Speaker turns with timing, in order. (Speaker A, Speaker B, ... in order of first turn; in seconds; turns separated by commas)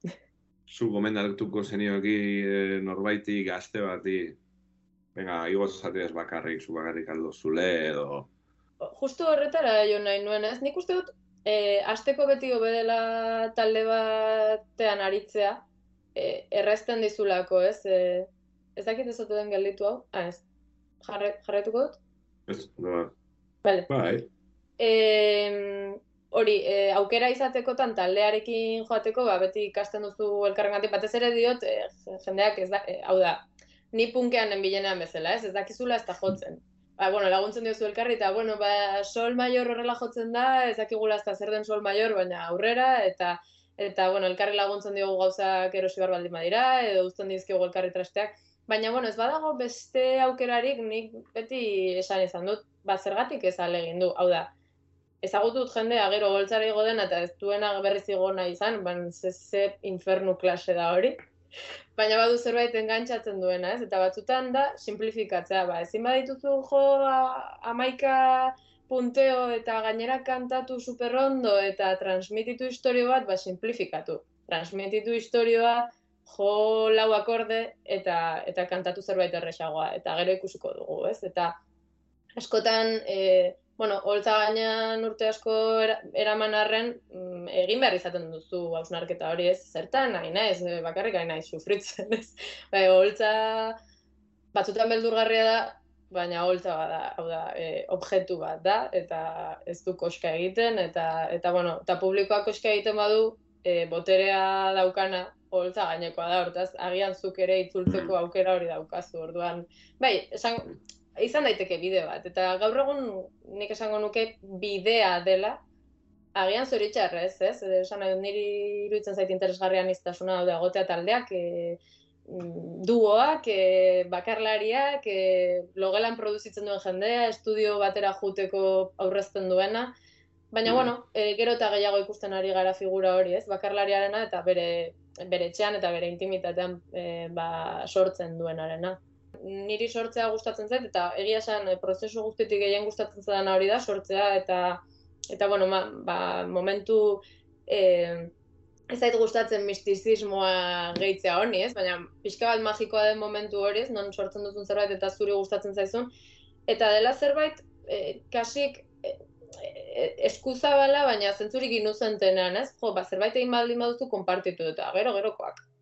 Speaker A: 0.7-4.4, Speaker A: 5.1-8.3, Speaker B: 8.8-15.6, Speaker B: 16.1-20.4, Speaker B: 21.0-22.0, Speaker A: 22.5-23.1, Speaker A: 23.9-24.3, Speaker B: 24.8-54.5, Speaker B: 55.2-61.2, Speaker B: 62.0-81.5, Speaker B: 82.4-93.8, Speaker B: 94.5-115.6, Speaker A: 107.9-108.1, Speaker B: 116.3-129.9, Speaker B: 130.5-148.3, Speaker A: 130.7-130.9, Speaker B: 148.9-156.1, Speaker B: 156.7-165.6